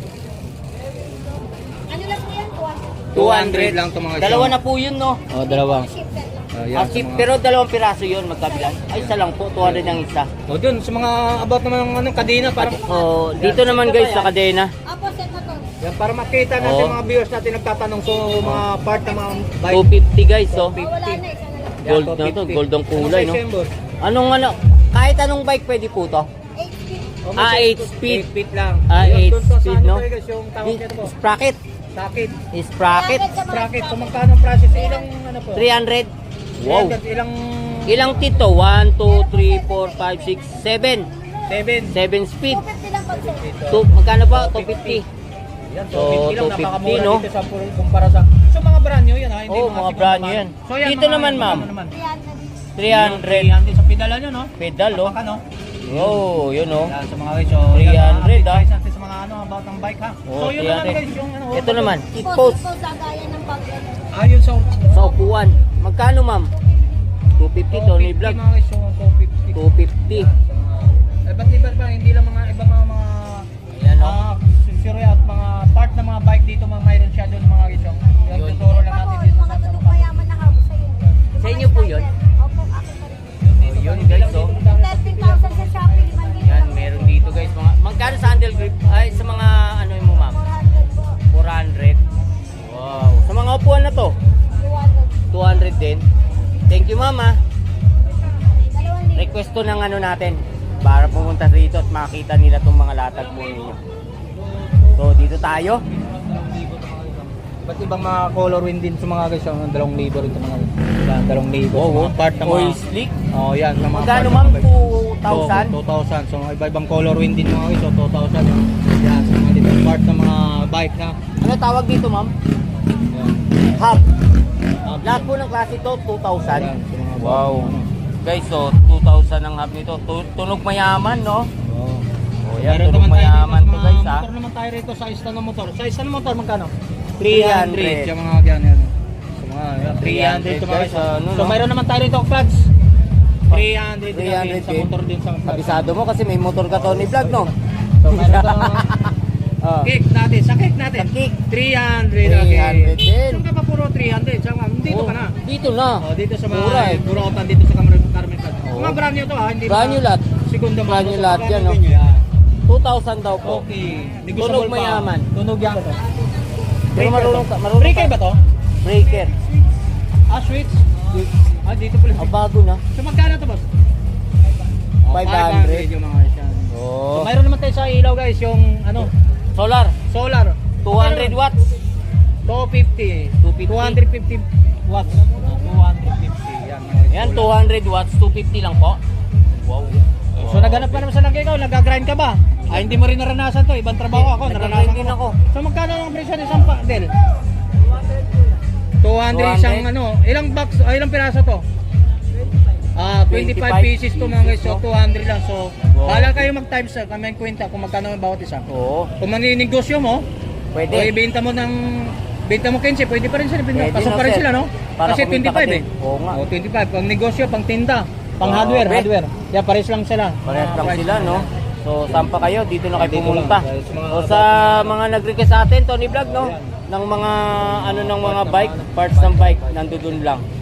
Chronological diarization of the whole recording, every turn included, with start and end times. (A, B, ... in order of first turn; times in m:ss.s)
0:01.9-0:03.0 A
0:03.1-0:04.6 B
0:03.1-0:05.4 C
0:05.3-0:05.9 B
0:05.5-0:06.5 A
0:06.5-0:07.3 B
0:06.7-0:10.3 C
0:08.9-0:14.3 B
0:12.6-0:14.7 C
0:14.8-0:15.6 A
0:15.8-0:19.9 B
0:16.6-0:17.0 C
0:19.7-0:20.8 C
0:20.5-0:21.2 B
0:20.8-0:21.8 A
0:21.8-0:23.8 B
0:21.8-0:23.4 C
0:24.0-0:26.3 C
0:26.6-0:27.1 A
0:27.2-0:31.1 B
0:27.4-0:28.2 C
0:28.9-0:30.0 C
0:30.6-0:31.6 C
0:31.9-0:32.4 B
0:32.5-0:33.3 C
0:32.9-0:35.0 A
0:33.4-0:35.7 B
0:35.5-0:37.0 C
0:36.6-0:38.4 B
0:37.9-0:41.1 C
0:39.1-0:40.6 A
0:41.5-0:42.0 B
0:41.9-0:42.6 C
0:42.5-0:43.4 A
0:43.1-0:45.0 B
0:43.7-0:45.0 C
0:45.7-0:52.0 B
0:45.9-0:47.2 C
0:49.5-0:51.7 C
0:51.9-0:52.5 A
0:52.8-0:53.5 C
0:52.9-0:56.3 B
0:54.6-0:55.1 C
0:55.8-0:56.9 C
0:56.8-1:02.0 B
0:57.7-0:58.6 C
1:00.3-1:02.7 C
1:02.2-1:04.0 A
1:04.1-1:05.1 B
1:04.9-1:06.5 C
1:07.4-1:08.4 C
1:07.7-1:13.5 B
1:09.5-1:10.3 C
1:13.7-1:14.2 C
1:14.0-1:20.3 B
1:18.3-1:18.7 C
1:18.6-1:23.4 A
1:21.4-1:22.1 C
1:23.4-1:26.6 B
1:23.6-1:24.6 C
1:24.6-1:27.2 A
1:26.4-1:30.4 C
1:30.3-1:31.2 A
1:31.3-1:32.0 C
1:32.6-1:34.2 C
1:34.6-1:35.2 A
1:35.3-1:36.0 C
1:36.7-1:37.4 C
1:38.7-1:39.3 A
1:39.1-1:43.8 C
1:43.4-1:43.7 B
1:44.5-1:45.3 B
1:45.0-1:45.8 C
1:45.9-1:52.8 B
1:51.7-1:53.1 C
1:53.3-1:54.7 B
1:53.8-1:55.8 C
1:55.3-2:01.2 B
2:01.4-2:02.3 C
2:03.7-2:04.0 C
2:04.8-2:05.3 B
2:05.0-2:11.5 C
2:06.4-2:07.9 B
2:11.6-2:12.0 B
2:12.4-2:14.3 C
2:12.6-2:22.7 B
2:17.2-2:18.1 C
2:19.8-2:21.6 C
2:23.5-2:24.9 C
2:23.5-2:26.0 B
2:25.4-2:27.5 C
2:26.7-2:29.0 B
2:28.1-2:29.9 C
2:29.8-2:35.4 B
2:30.9-2:31.4 C
2:32.2-2:33.4 C
2:34.8-2:37.0 C
2:36.0-2:42.2 B
2:38.6-2:39.0 C
2:39.6-2:40.3 C
2:40.8-2:42.0 C
2:42.6-2:43.6 C
2:43.4-2:46.0 B
2:44.4-2:45.3 C
2:46.9-2:48.2 C
2:46.9-2:48.4 B
2:48.8-2:49.3 C
2:50.3-2:52.3 B
2:52.2-2:52.8 C
2:52.9-2:53.6 B
2:55.0-2:59.1 B
2:55.1-2:55.9 C
2:56.7-2:57.3 C
2:59.5-3:00.0 C
3:00.0-3:01.4 B
3:00.8-3:01.7 C
3:02.4-3:07.5 B
3:03.4-3:04.0 C
3:07.1-3:11.0 C
3:10.4-3:17.1 B
3:12.7-3:13.0 C
3:14.1-3:15.4 C
3:19.0-3:21.6 B
3:19.3-3:19.9 C
3:22.9-3:28.7 B
3:23.3-3:24.8 C
3:25.9-3:26.5 C
3:28.7-3:29.1 C
3:29.2-3:30.2 B
3:30.7-3:31.1 C
3:30.9-3:41.5 B
3:33.7-3:36.4 C
3:38.4-3:39.1 C
3:40.4-3:50.4 C
3:42.1-3:42.3 B
3:43.0-3:45.0 B
3:46.4-3:46.8 B
3:47.6-3:50.1 B